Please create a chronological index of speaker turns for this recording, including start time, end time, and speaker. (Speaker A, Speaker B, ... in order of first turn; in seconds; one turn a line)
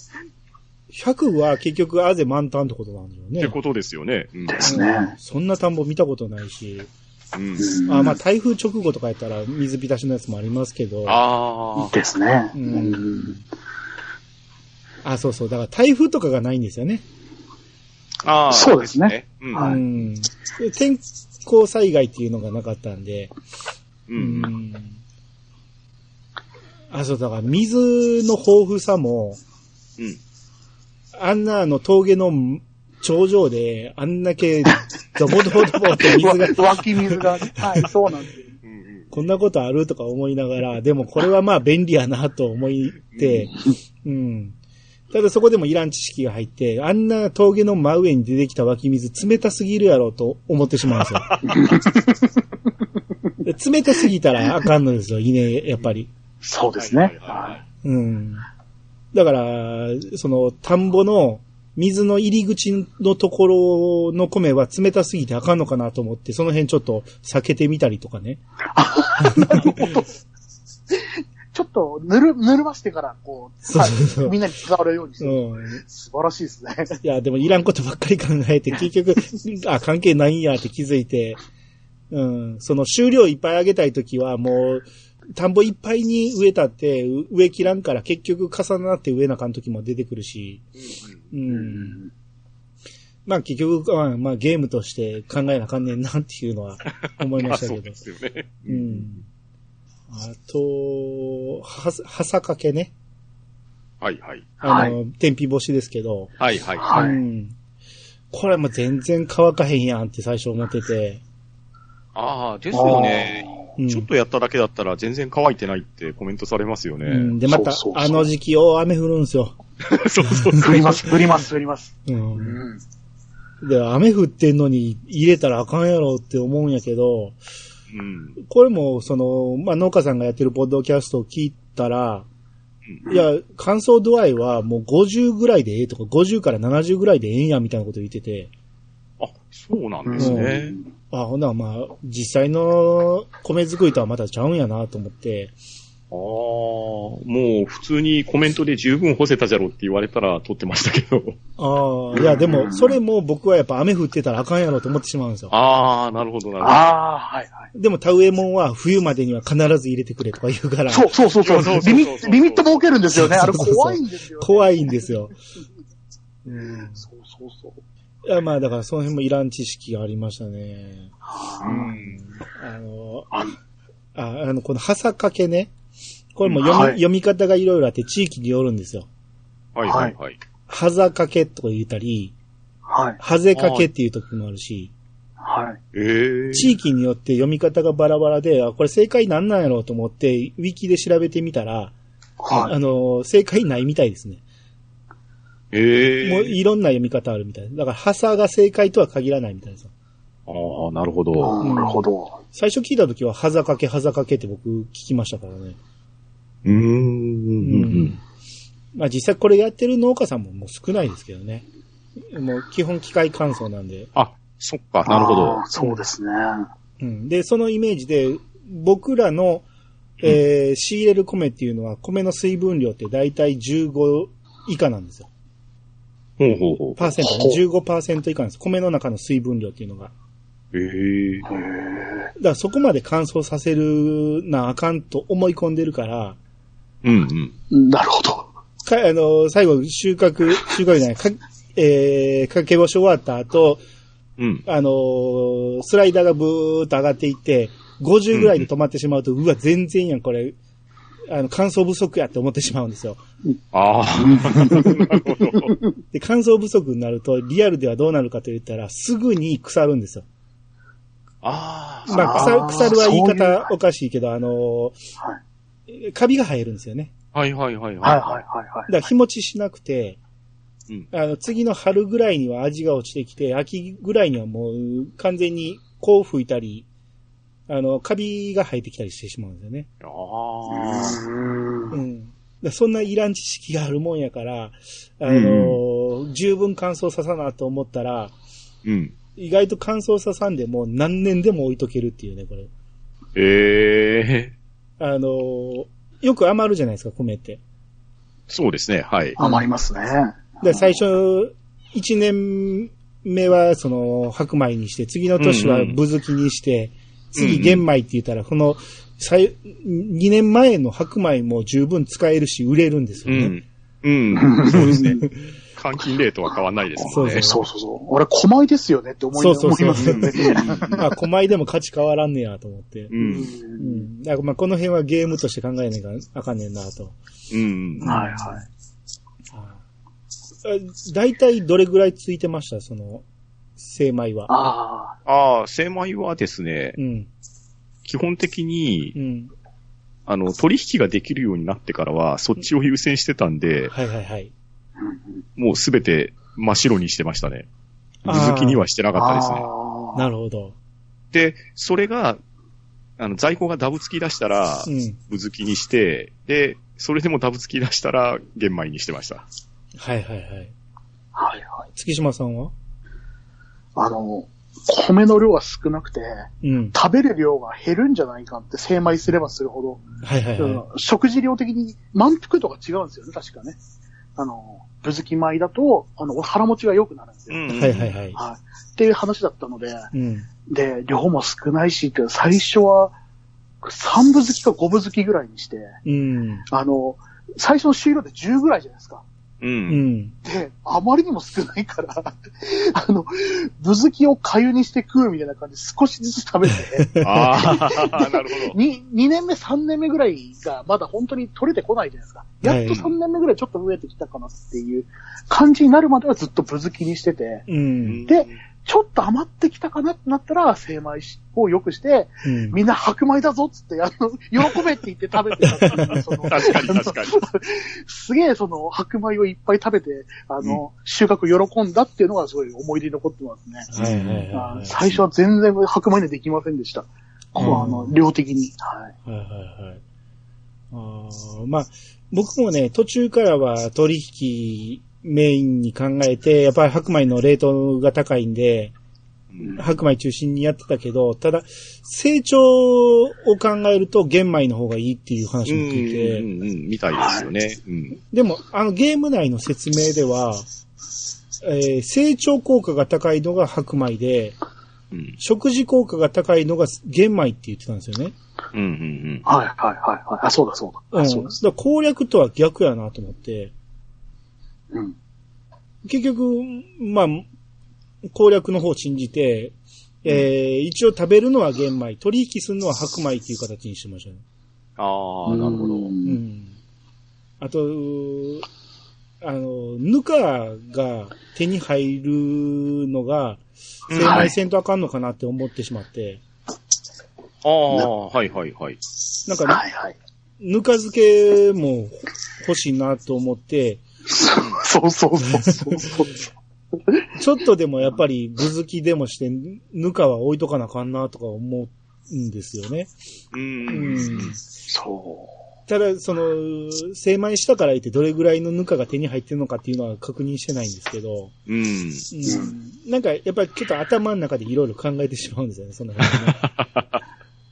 Speaker A: 0.9-3.6
Speaker B: 3.4-4.7
Speaker C: 4.5-5.1
Speaker A: 4.7-6.9
Speaker B: 7.3-7.7
Speaker C: 7.6-8.2
Speaker A: 7.9-11.2
Speaker B: 11.1-12.0
Speaker C: 11.8-13.3
Speaker A: 12.5-13.4
Speaker A: 15.0-17.0
Speaker B: 18.2-19.8
Speaker C: 18.5-19.8
Speaker A: 19.6-23.3
Speaker B: 24.1-24.5
Speaker A: 24.2-25.0
Speaker A: 26.9-29.4
Speaker A: 31.2-37.9
Speaker C: 35.3-38.5
Speaker B: 38.6-39.1
Speaker A: 39.1-44.5
Speaker B: 43.1-43.5
Speaker A: 45.1-51.3
Speaker C: 51.5-52.3
Speaker A: 53.4-56.1
Speaker C: 56.4-57.6
Speaker B: 56.8-57.6
Speaker A: 57.8-58.5
Speaker A: 59.1-68.4
Speaker C: 68.7-70.1
Speaker A: 69.2-69.7
Speaker C: 70.9-77.0
Speaker A: 73.7-74.4
Speaker A: 75.2-75.8
Speaker A: 77.0-81.4
Speaker A: 82.1-90.6
Speaker B: 90.8-91.2
Speaker A: 91.3-92.0
Speaker C: 91.5-92.1
Speaker A: 93.3-98.0
Speaker B: 97.1-99.1
Speaker A: 98.7-99.2
Speaker A: 100.1-102.9
Speaker B: 104.0-104.5
Speaker C: 104.6-105.0
Speaker A: 104.6-106.3
Speaker B: 106.4-106.9
Speaker C: 106.8-107.2
Speaker A: 106.9-107.5
Speaker A: 108.3-111.2
Speaker B: 112.2-117.3
Speaker C: 112.7-113.6
Speaker A: 113.8-114.1
Speaker A: 117.0-119.6
Speaker C: 117.5-118.3
Speaker B: 119.9-121.3
Speaker C: 120.6-122.8
Speaker A: 122.1-122.6
Speaker A: 123.6-127.4
Speaker B: 127.9-128.4
Speaker A: 128.4-132.3
Speaker A: 133.1-138.5
Speaker B: 139.2-140.8
Speaker C: 140.1-140.8
Speaker A: 140.2-140.6
Speaker A: 141.1-145.6
Speaker B: 146.1-151.4
Speaker A: 151.6-155.5
Speaker C: 152.1-153.0
Speaker B: 155.5-156.9
Speaker C: 156.6-157.7
Speaker A: 157.7-161.1
Speaker C: 160.9-165.2
Speaker B: 161.4-162.9
Speaker A: 163.2-165.4
Speaker A: 166.4-167.1
Speaker C: 167.0-167.8
Speaker A: 168.3-171.1
Speaker C: 171.3-171.9
Speaker B: 171.6-172.2
Speaker A: 171.7-173.3
Speaker A: 174.2-175.7
Speaker A: 176.4-179.1
Speaker B: 176.4-176.7
Speaker C: 176.7-177.0
Speaker B: 179.8-180.4
Speaker C: 179.8-180.1
Speaker A: 180.7-182.3
Speaker C: 182.9-183.2
Speaker A: 183.2-184.9
Speaker B: 183.5-183.9
Speaker C: 185.4-185.8
Speaker B: 185.9-186.7
Speaker A: 186.5-191.9
Speaker C: 192.4-192.7
Speaker A: 192.5-194.4
Speaker B: 195.7-196.6
Speaker A: 196.2-199.9
Speaker B: 200.5-201.6
Speaker C: 201.4-202.4
Speaker A: 201.6-205.8
Speaker B: 206.6-208.2
Speaker A: 207.6-208.2
Speaker A: 208.9-211.7
Speaker A: 212.3-214.1
Speaker B: 214.2-215.6
Speaker C: 215.1-216.7
Speaker A: 217.0-219.7
Speaker A: 220.2-225.3
Speaker B: 226.4-227.1
Speaker A: 227.0-230.1
Speaker C: 227.2-227.6
Speaker B: 230.7-231.5
Speaker C: 231.5-232.3
Speaker A: 232.4-236.4
Speaker B: 237.0-237.5
Speaker C: 237.7-238.5
Speaker A: 238.8-243.8
Speaker B: 244.4-244.6
Speaker A: 244.7-250.6
Speaker B: 248.3-248.7
Speaker A: 251.3-253.2
Speaker B: 253.7-255.8
Speaker C: 254.2-255.9
Speaker A: 256.1-260.2
Speaker B: 261.4-262.9
Speaker C: 262.1-263.7
Speaker A: 262.1-265.0
Speaker A: 265.9-267.1
Speaker B: 267.3-268.4
Speaker C: 268.0-268.9
Speaker A: 268.9-270.2
Speaker A: 271.1-276.9
Speaker A: 277.7-279.9
Speaker B: 280.0-281.2
Speaker C: 280.7-282.0
Speaker A: 281.9-288.3
Speaker B: 285.3-285.8
Speaker B: 288.9-289.1
Speaker A: 289.4-292.7
Speaker B: 293.4-294.5
Speaker A: 295.0-297.6
Speaker B: 298.5-299.4
Speaker C: 299.4-301.0
Speaker A: 299.4-299.6
Speaker A: 300.6-313.6
Speaker B: 305.4-306.0
Speaker B: 307.4-307.8
Speaker B: 313.3-317.5
Speaker C: 314.3-315.1
Speaker A: 314.7-315.4
Speaker C: 316.5-321.1
Speaker A: 317.1-317.6
Speaker A: 319.4-323.1
Speaker B: 319.9-321.1
Speaker B: 323.1-323.5
Speaker C: 323.2-324.1
Speaker A: 323.8-327.2
Speaker B: 327.5-328.1
Speaker A: 328.0-328.7
Speaker C: 328.1-328.6
Speaker A: 329.5-329.8
Speaker A: 330.6-333.2
Speaker A: 333.8-334.6
Speaker C: 334.5-335.1
Speaker B: 335.3-337.0
Speaker A: 337.0-337.3
Speaker B: 338.1-339.1
Speaker A: 339.1-339.5
Speaker B: 340.3-343.9
Speaker A: 343.9-344.5
Speaker C: 345.0-345.4
Speaker B: 345.6-347.7
Speaker A: 348.2-348.8
Speaker B: 348.3-349.7
Speaker C: 349.1-350.2
Speaker A: 350.1-350.8
Speaker B: 351.3-352.4
Speaker B: 353.2-359.4
Speaker A: 354.9-355.2
Speaker A: 360.0-360.7
Speaker C: 361.3-361.9
Speaker A: 361.9-362.7
Speaker C: 364.0-370.1
Speaker A: 366.6-367.0
Speaker A: 370.2-370.9
Speaker C: 370.6-373.8
Speaker C: 374.4-377.6
Speaker B: 377.5-378.1
Speaker A: 377.7-378.4
Speaker C: 378.4-380.1
Speaker A: 380.1-380.5
Speaker C: 380.7-383.2
Speaker C: 383.8-386.0
Speaker A: 386.1-386.7
Speaker C: 386.7-389.2
Speaker B: 389.6-390.1
Speaker A: 389.9-390.4
Speaker C: 390.4-407.6
Speaker A: 397.0-397.4
Speaker B: 397.2-398.8
Speaker A: 402.6-403.0
Speaker A: 407.7-408.2
Speaker B: 408.1-408.6
Speaker C: 408.3-423.9
Speaker A: 412.4-412.8
Speaker B: 415.6-417.4
Speaker A: 423.9-425.0
Speaker B: 423.9-424.5
Speaker C: 424.5-429.1
Speaker A: 427.6-428.2
Speaker A: 429.3-430.0
Speaker A: 430.9-438.9
Speaker B: 439.5-439.8
Speaker A: 439.8-446.5
Speaker B: 445.7-448.2
Speaker C: 447.1-447.5
Speaker A: 448.3-450.6
Speaker A: 451.6-454.6
Speaker B: 455.1-455.4
Speaker A: 455.4-458.4
Speaker B: 458.7-459.5
Speaker C: 459.5-461.6
Speaker A: 461.1-463.7
Speaker A: 466.0-467.5
Speaker A: 468.3-474.4
Speaker B: 475.0-476.1
Speaker C: 475.5-476.4
Speaker A: 476.2-476.8
Speaker A: 477.6-478.7
Speaker A: 479.4-486.4
Speaker B: 484.1-484.5
Speaker C: 484.2-484.5
Speaker B: 487.6-489.0
Speaker A: 489.5-489.8
Speaker C: 489.6-490.2
Speaker A: 490.6-494.0
Speaker C: 494.3-496.4
Speaker A: 495.6-496.1
Speaker A: 497.4-503.1
Speaker B: 503.5-504.5
Speaker A: 503.9-504.6
Speaker C: 504.9-505.5
Speaker A: 505.9-511.5
Speaker B: 511.7-512.3
Speaker A: 512.3-516.7
Speaker C: 512.5-512.8
Speaker B: 516.2-517.2